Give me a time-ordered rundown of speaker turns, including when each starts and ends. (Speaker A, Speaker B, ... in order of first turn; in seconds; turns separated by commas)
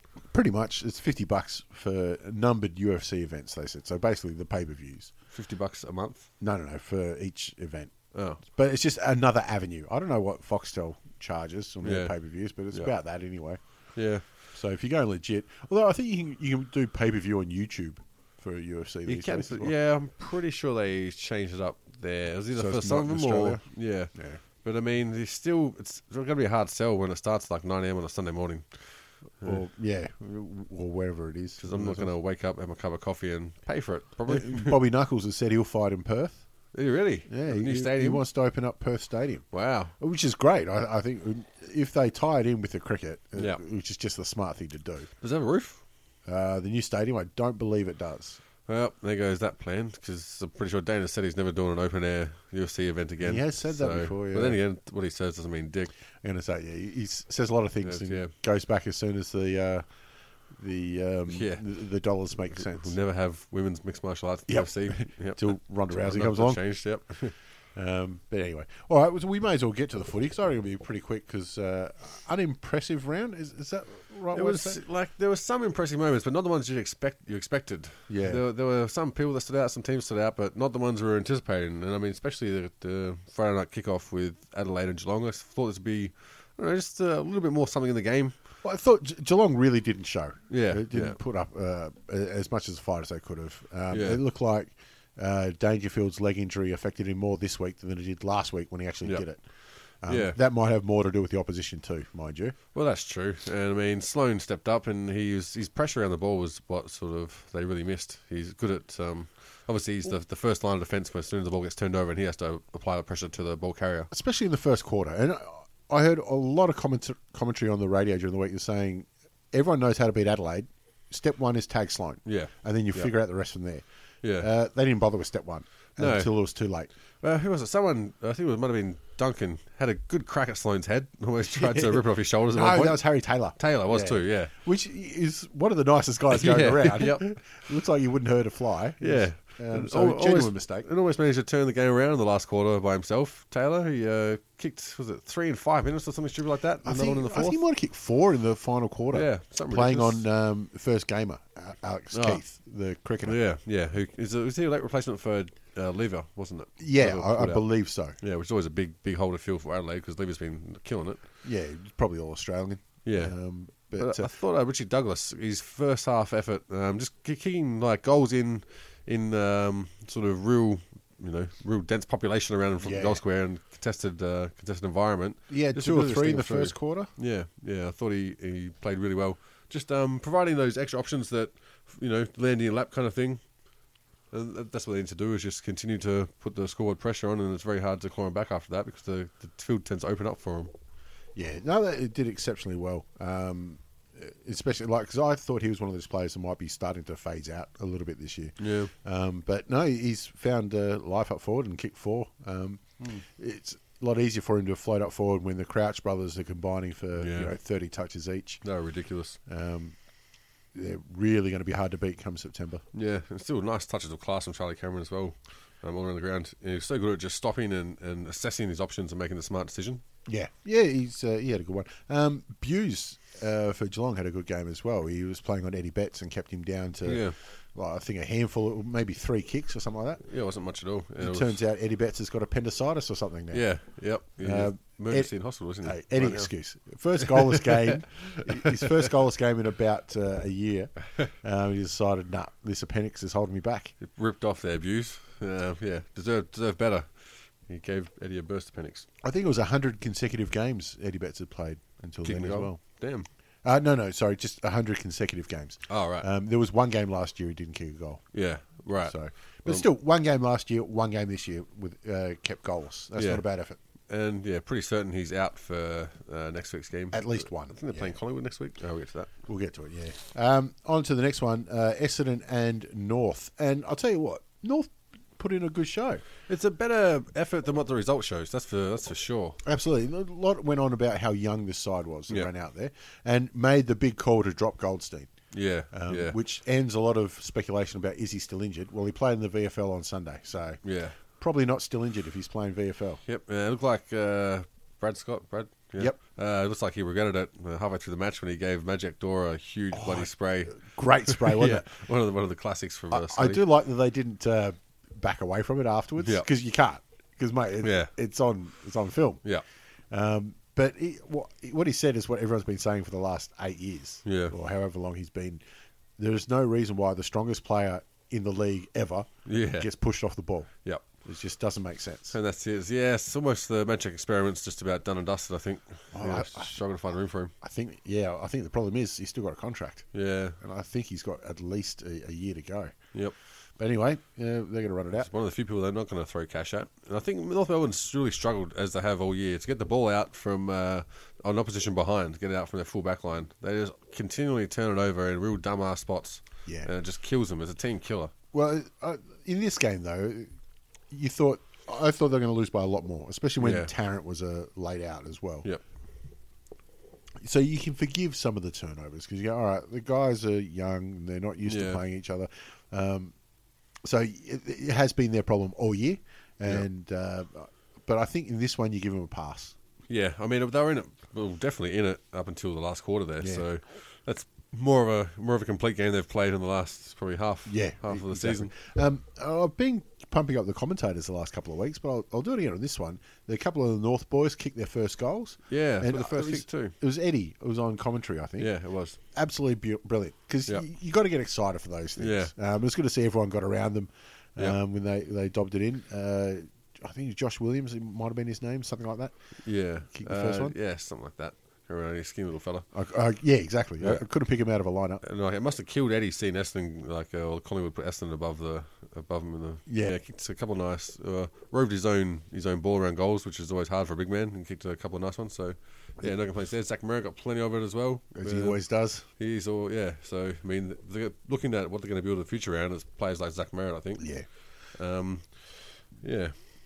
Speaker A: 0.3-5.1, Speaker B: 5.3-6.3, Speaker A: 6.4-13.6, Speaker B: 8.1-8.4, Speaker B: 11.8-12.2, Speaker B: 13.9-14.2, Speaker A: 14.5-19.7, Speaker B: 19.1-29.6, Speaker A: 22.5-24.4, Speaker A: 29.4-32.1, Speaker B: 31.6-34.8, Speaker A: 34.3-36.4, Speaker B: 36.7-38.2, Speaker A: 37.3-39.5, Speaker B: 39.5-39.9, Speaker A: 40.0-45.1, Speaker B: 43.4-43.6, Speaker B: 45.2-45.8, Speaker A: 46.3-48.4, Speaker B: 48.7-55.9, Speaker A: 53.2-54.6, Speaker A: 56.2-59.9, Speaker B: 57.8-58.3, Speaker A: 60.5-62.9, Speaker B: 61.3-61.6, Speaker B: 62.5-67.3, Speaker A: 64.5-66.6, Speaker A: 67.8-74.8, Speaker B: 74.3-88.3, Speaker A: 78.1-78.4, Speaker A: 88.6-99.4, Speaker B: 90.5-91.2, Speaker B: 93.9-94.2, Speaker A: 100.0-102.6, Speaker B: 100.1-100.4, Speaker B: 102.7-114.1, Speaker A: 114.1-123.8, Speaker B: 122.3-123.1, Speaker B: 124.2-124.5, Speaker A: 124.4-126.9, Speaker B: 126.0-126.3, Speaker B: 127.2-134.5, Speaker A: 131.6-140.9, Speaker B: 136.3-137.3, Speaker B: 139.0-147.6, Speaker A: 146.8-153.4, Speaker B: 149.1-150.2, Speaker B: 152.1-152.4, Speaker B: 153.2-161.2, Speaker A: 156.8-158.2, Speaker A: 161.4-164.3, Speaker B: 163.0-183.4, Speaker A: 172.8-173.2, Speaker A: 175.5-177.1, Speaker B: 184.3-190.7, Speaker A: 191.3-208.6, Speaker B: 198.6-198.9, Speaker B: 207.2-207.5, Speaker B: 208.6-209.4, Speaker A: 209.5-210.0, Speaker A: 210.7-212.8, Speaker B: 212.9-220.0, Speaker A: 220.3-230.3, Speaker B: 227.1-227.3, Speaker B: 230.3-231.6, Speaker A: 231.2-233.7, Speaker B: 233.5-236.5, Speaker A: 234.4-243.9, Speaker B: 237.2-239.0, Speaker B: 244.0-249.1, Speaker A: 249.2-252.8, Speaker B: 252.2-253.3, Speaker A: 253.6-258.2, Speaker B: 255.9-256.3, Speaker B: 258.3-259.9, Speaker A: 259.1-263.8, Speaker B: 263.2-263.4, Speaker B: 264.1-269.3, Speaker A: 267.1-268.1, Speaker A: 269.5-276.2, Speaker B: 276.5-279.6, Speaker A: 279.6-285.3, Speaker B: 285.5-286.4, Speaker A: 285.9-290.8, Speaker B: 290.8-291.1, Speaker A: 291.3-293.2, Speaker B: 293.3-303.7, Speaker A: 299.9-301.9, Speaker A: 303.1-309.4, Speaker B: 306.2-306.5, Speaker B: 307.8-308.1, Speaker A: 310.1-315.6, Speaker B: 314.2-314.6, Speaker A: 316.2-322.4, Speaker B: 319.5-319.9, Speaker B: 322.3-327.5, Speaker A: 326.1-326.8, Speaker A: 327.6-332.9, Speaker B: 330.1-330.6, Speaker A: 333.8-335.3, Speaker B: 335.2-348.3, Speaker A: 348.5-350.5, Speaker A: 351.1-355.7, Speaker B: 353.6-353.9, Speaker A: 357.4-363.3, Speaker B: 361.7-362.0, Speaker A: 364.0-369.8, Speaker B: 370.1-378.7, Speaker A: 373.4-373.7, Speaker A: 377.7-388.7, Speaker B: 385.7-386.9, Speaker B: 388.6-389.2, Speaker A: 389.3-399.3, Speaker B: 392.2-392.5, Speaker B: 399.6-402.9, Speaker A: 400.0-400.8, Speaker A: 402.9-405.2, Speaker B: 405.2-426.6, Speaker A: 409.9-410.2, Speaker A: 418.4-419.2, Speaker A: 424.2-424.5